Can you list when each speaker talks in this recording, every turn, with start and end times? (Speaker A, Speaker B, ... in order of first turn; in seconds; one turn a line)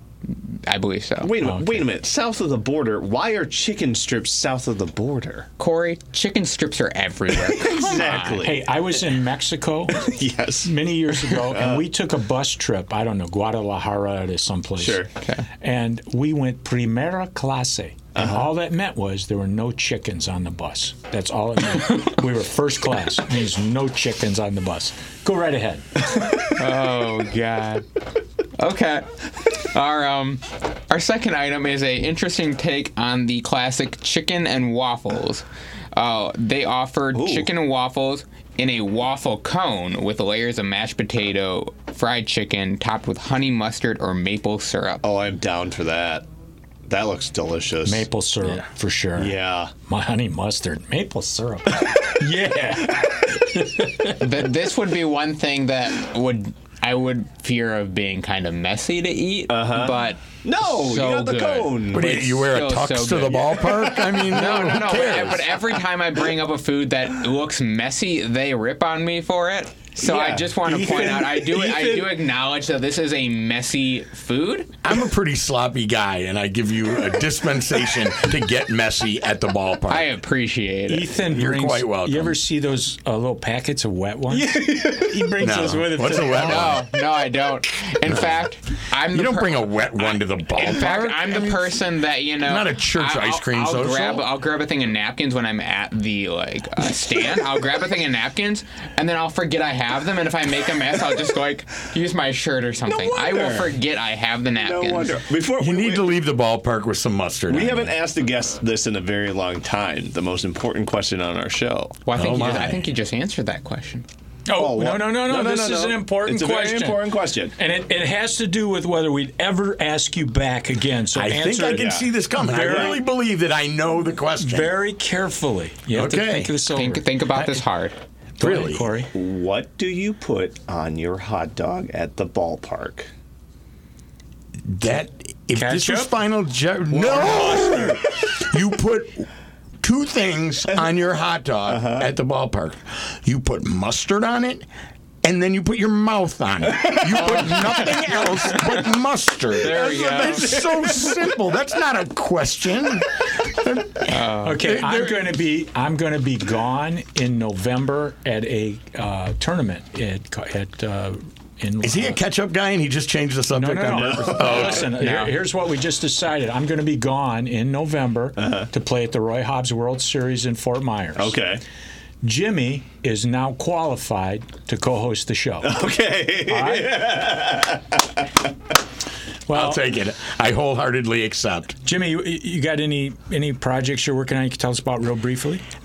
Speaker A: 0.7-1.3
Speaker B: 1.2-5.5
Speaker C: 1.4-1.9
Speaker A: 5.6-8.5
Speaker B: 7.3-9.2
Speaker C: 8.1-26.3
Speaker B: 9.9-11.8
Speaker B: 14.8-15.1
Speaker A: 15.2-15.5
Speaker B: 18.1-18.5
Speaker A: 26.5-27.8
Speaker A: 28.6-45.0
Speaker B: 37.1-37.5
Speaker B: 45.0-46.2
Speaker B: 46.9-48.1
Speaker C: 47.8-54.2
Speaker B: 49.2-49.7
Speaker A: 54.2-74.7
Speaker B: 59.5-62.2
Speaker D: 61.9-65.5
Speaker B: 70.0-70.5
Speaker C: 70.5-72.2
Speaker D: 74.8-80.1
Speaker A: 79.9-81.1
Speaker C: 80.9-86.8
Speaker D: 81.2-82.4
Speaker B: 84.3-85.3
Speaker D: 85.4-86.8
Speaker A: 86.4-105.2
Speaker D: 88.0-88.4
Speaker D: 89.1-91.7
Speaker D: 92.4-94.2
Speaker B: 102.9-103.8
Speaker B: 104.5-106.1
Speaker D: 105.6-108.0
Speaker B: 107.5-112.0
Speaker A: 112.0-114.0
Speaker D: 112.1-112.8
Speaker C: 114.5-117.0
Speaker B: 114.5-117.5
Speaker C: 117.6-123.0
Speaker D: 121.1-124.8
Speaker B: 121.6-123.0
Speaker C: 124.4-127.1
Speaker D: 125.9-126.6
Speaker A: 126.7-128.0
Speaker D: 128.4-128.9
Speaker C: 128.4-129.1
Speaker B: 129.1-133.1
Speaker D: 134.7-139.3
Speaker C: 135.6-136.1
Speaker C: 136.9-138.0
Speaker D: 139.8-144.7
Speaker B: 141.7-142.1
Speaker D: 145.2-155.4
Speaker A: 147.1-147.9
Speaker A: 148.5-148.9
Speaker A: 149.6-150.5
Speaker B: 149.7-151.2
Speaker A: 154.1-154.6
Speaker C: 154.4-162.2
Speaker D: 161.8-165.1
Speaker C: 163.5-171.4
Speaker B: 163.8-164.8
Speaker A: 164.8-165.3
Speaker B: 168.4-168.7
Speaker B: 171.2-171.6
Speaker C: 172.2-175.9
Speaker B: 175.6-178.2
Speaker C: 176.4-177.0
Speaker C: 179.5-179.8
Speaker D: 179.5-181.8
Speaker C: 181.8-185.6